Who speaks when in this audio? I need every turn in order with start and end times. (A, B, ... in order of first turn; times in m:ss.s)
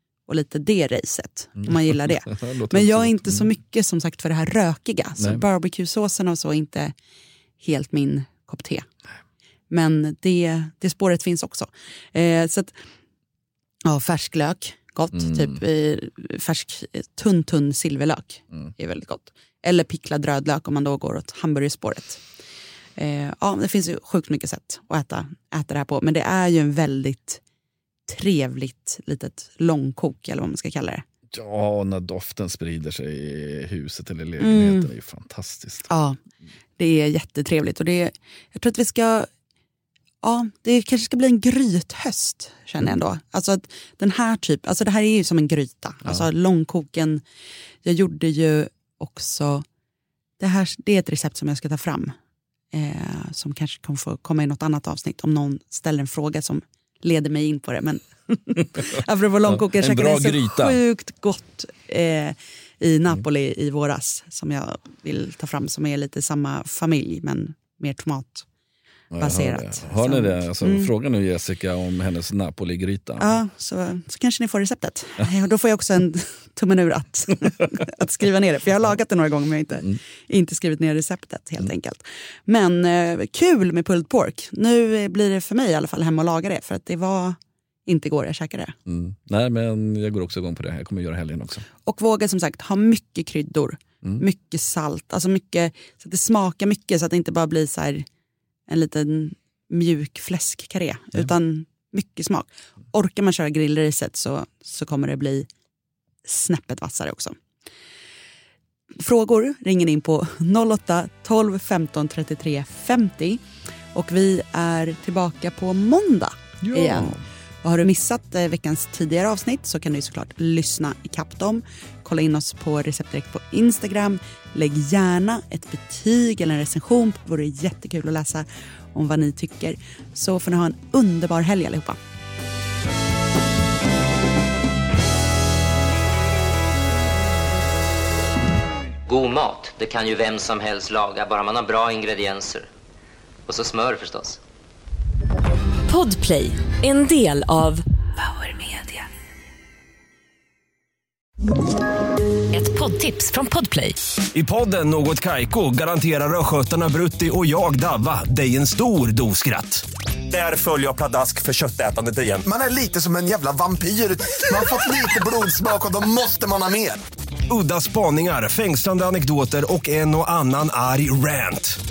0:00.3-0:06.9 A
0:01.6-0:03.5 B
0:05.2-0:05.4 B
0:07.6-0:08.9 A
0:09.7-0:12.8 A
0:13.9-0:22.2 A
0:15.2-0:15.5 B
0:23.0-0:27.4 A
0:28.1-0:31.0 A
0:31.3-0:35.9 B
0:34.4-0:34.9 A
0:35.9-0:36.2 A
0:36.8-0:39.3 A
0:40.2-0:47.2 A
0:47.8-0:49.6 A
0:50.4-0:52.1 A
0:52.7-1:08.5 A
0:59.4-1:00.8 B
1:09.1-1:13.4 B
1:09.2-1:10.9 A
1:13.2-1:28.8 A
1:28.9-1:31.6 B
1:31.8-1:38.0 A
1:38.7-1:45.5 A
1:46.2-1:47.4 A
1:49.0-1:53.4 A
1:53.9-2:12.0 A
1:56.6-1:57.2 B
2:19.1-2:22.7 C
2:23.5-2:24.4 C
2:25.9-2:29.0 D
2:32.5-2:34.0 D
2:34.3-2:42.5 E
2:42.5-2:47.0 F
2:47.5-2:51.8 E